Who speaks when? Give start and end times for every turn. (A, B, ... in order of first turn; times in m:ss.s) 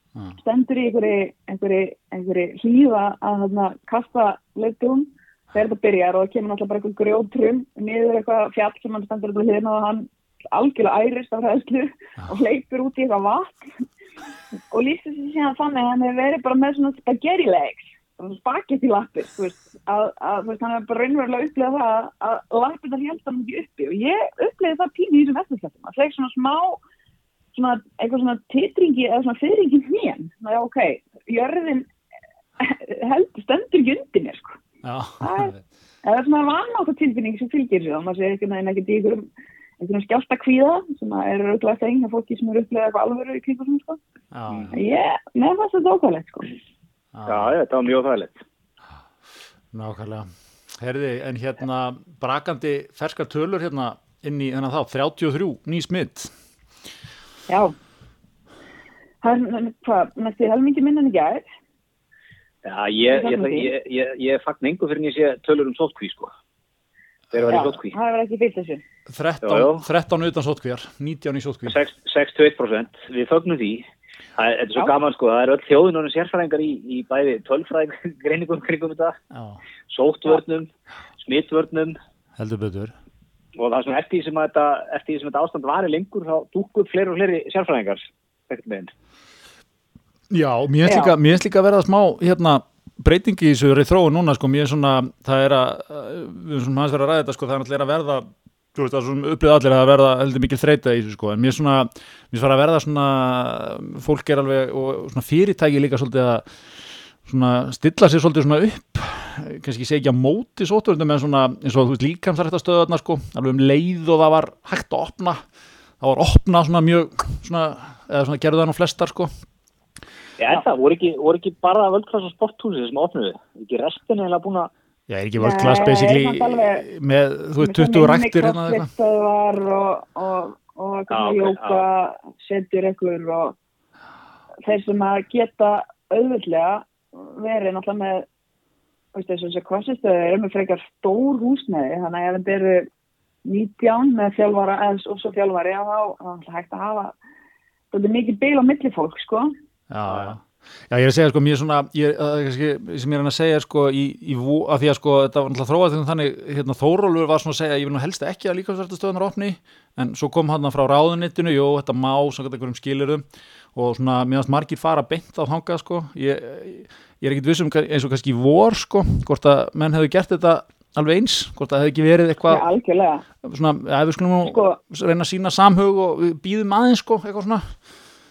0:00.4-0:13.8 A
0:14.7-0:26.8 A
0:27.5-0:31.9 A
0:32.6-0:34.6 A
0:34.8-0:35.6 B
0:35.2-0:39.3 A
0:39.8-0:44.0 A
0:44.3-0:44.7 B
0:44.7-0:46.5 A
0:47.1-0:47.5 B
0:47.3-0:48.4 C
0:49.7-0:56.3 B
0:57.5-0:57.7 A
0:59.2-1:01.5 A
1:02.6-1:06.3 C
1:03.1-1:03.7 A
1:07.3-1:07.9 C
1:07.5-1:08.8 A
1:09.1-1:11.8 B
1:09.4-1:09.8 C
1:11.7-1:13.8 C
1:14.4-1:19.2 C
1:19.3-1:19.6 B
1:19.9-1:20.7 C
1:21.2-1:22.0 C
1:22.4-1:22.9 B
1:23.6-1:28.9 C
1:30.3-1:46.4 B
1:30.8-1:31.2 A
1:47.2-1:55.4 B
1:56.0-1:59.3 B
2:00.4-2:04.7 C
2:05.1-2:08.9 B
2:05.4-2:06.9 A
2:07.6-2:13.6 A
2:11.1-2:11.8 C
2:14.6-2:18.2 A
2:19.1-2:22.9 A
2:23.4-2:27.2 A
2:27.9-2:29.5 A
2:29.9-2:43.2 B
2:43.7-2:52.6 B
2:52.5-2:53.2 A
2:53.4-2:57.7 B
2:54.4-2:54.8 A